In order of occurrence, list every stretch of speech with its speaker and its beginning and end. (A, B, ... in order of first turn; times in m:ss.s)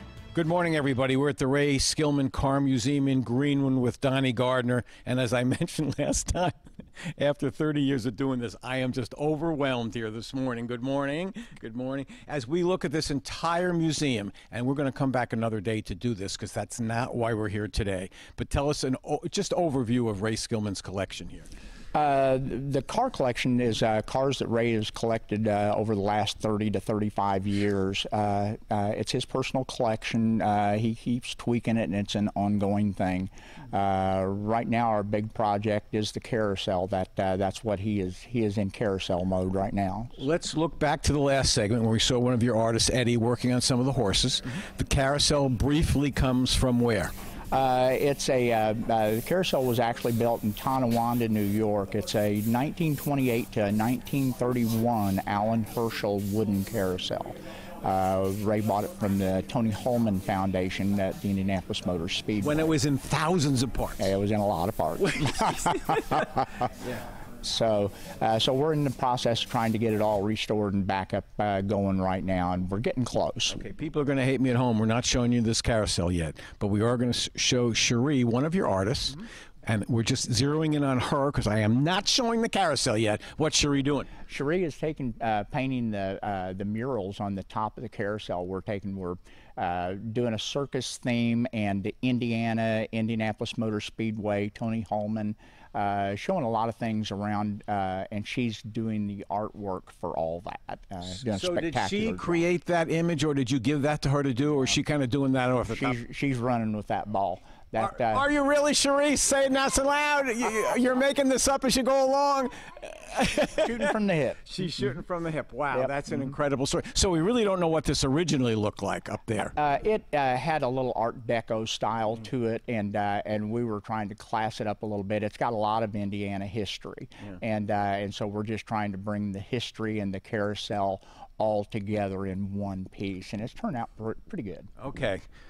0:00.3-0:06.6 A
0:07.2-0:21.5 A
0:21.9-0:40.2 B
0:40.2-0:47.1 A
0:47.5-1:02.6 B
1:02.4-1:04.1 A
1:04.0-1:06.6 B
1:05.1-1:06.2 A
1:07.4-1:13.6 B
1:13.5-1:24.1 A
1:24.3-1:42.5 B
1:41.2-1:46.0 A
1:45.7-1:48.3 B
1:47.8-1:53.9 A
1:53.6-1:54.4 B
1:54.4-1:59.5 A
1:59.6-2:14.7 B
2:14.8-2:15.2 A